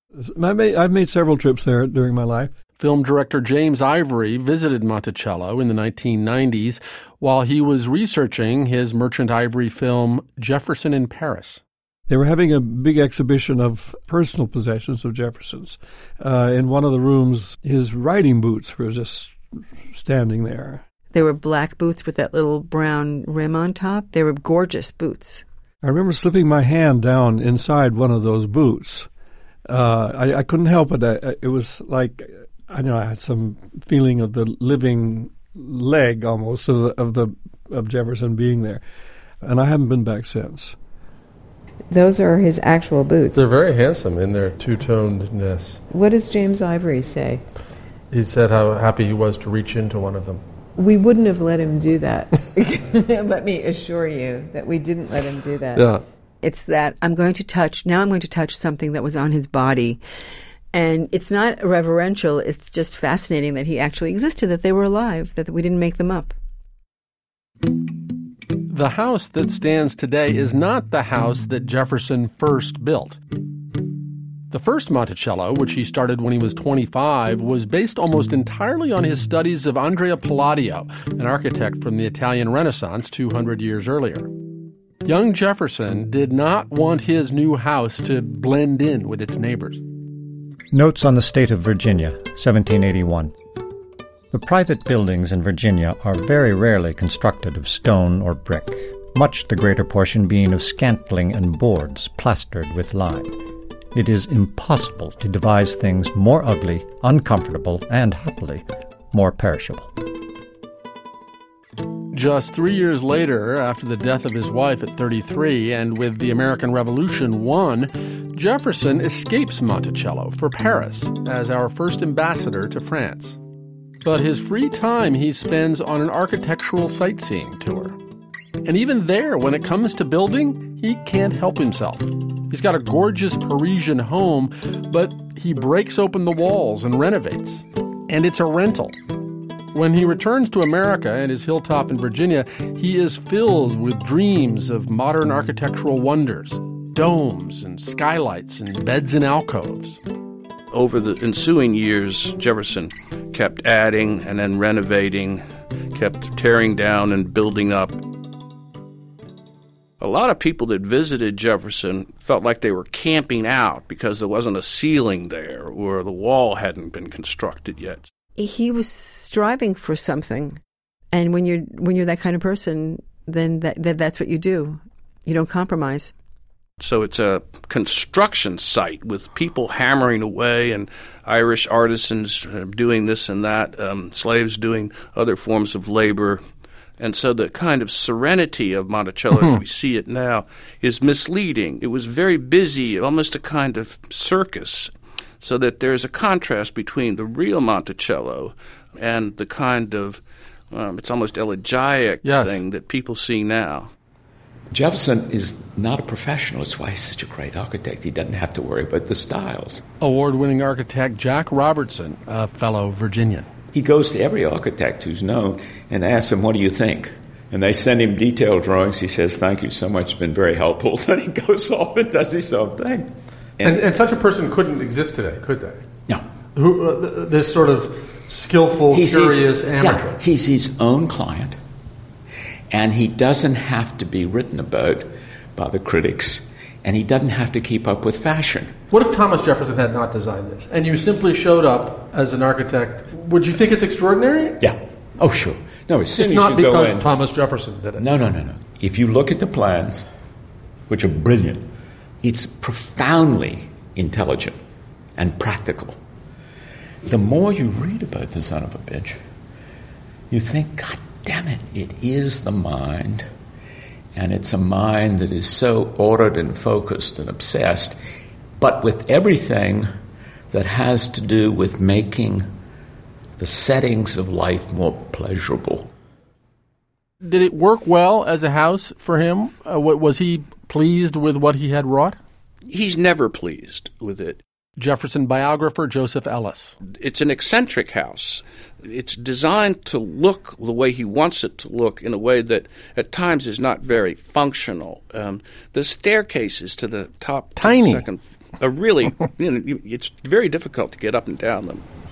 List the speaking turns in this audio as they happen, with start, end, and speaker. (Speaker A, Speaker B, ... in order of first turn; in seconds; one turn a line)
Speaker A: 0.2-2.5
Speaker B: 2.8-11.6
Speaker A: 12.1-20.8
Speaker C: 21.1-25.4
Speaker A: 25.8-29.1
Speaker A: 29.7-38.8
Speaker A: 39.4-40.8
Speaker D: 41.9-43.4
Speaker B: 43.3-45.8
Speaker D: 45.9-47.4
Speaker B: 48.1-50.4
Speaker D: 50.8-55.9
Speaker B: 55.8-56.0
Speaker C: 56.4-60.0
Speaker C: 60.7-66.3
Speaker B: 68.7-73.2
Speaker B: 74.5-84.3
Speaker B: 85.0-89.8
Speaker E: 90.7-93.3
Speaker E: 94.3-103.4
Speaker E: 103.9-109.9
Speaker B: 112.1-123.4
Speaker B: 124.0-128.0
Speaker B: 128.6-139.0
Speaker B: 139.7-150.0
Speaker F: 150.7-158.0
Speaker F: 160.0-168.1
Speaker C: 168.4-170.6
Speaker C: 171.1-176.1
Speaker F: 176.8-186.4
Speaker F: 187.0-203.9
Speaker B: 189.3-189.6
Speaker B: 202.2-202.6
Speaker G: 204.7-209.8
Speaker B: 210.0-213.5
Speaker G: 213.7-223.9
Speaker B: 223.6-225.8
Speaker B: 226.6-230.2
Speaker G: 228.9-231.6
Speaker G: 232.7-238.8
Speaker B: 238.9-244.6
Speaker G: 244.6-247.2
Speaker B: 246.2-248.0
Speaker G: 248.0-250.1
Speaker G: 250.9-251.7
Speaker G: 252.2-254.6
Speaker G: 255.2-256.0
Speaker G: 257.0-259.2
Speaker G: 260.3-263.3
Speaker G: 264.1-268.0
Speaker G: 268.6-269.9
Speaker G: 270.5-272.5
Speaker G: 273.4-275.9
Speaker B: 277.2-282.2
Speaker F: 282.7-284.4
Speaker B: 284.8-286.8
Speaker F: 286.9-301.8
Speaker B: 297.6-298.1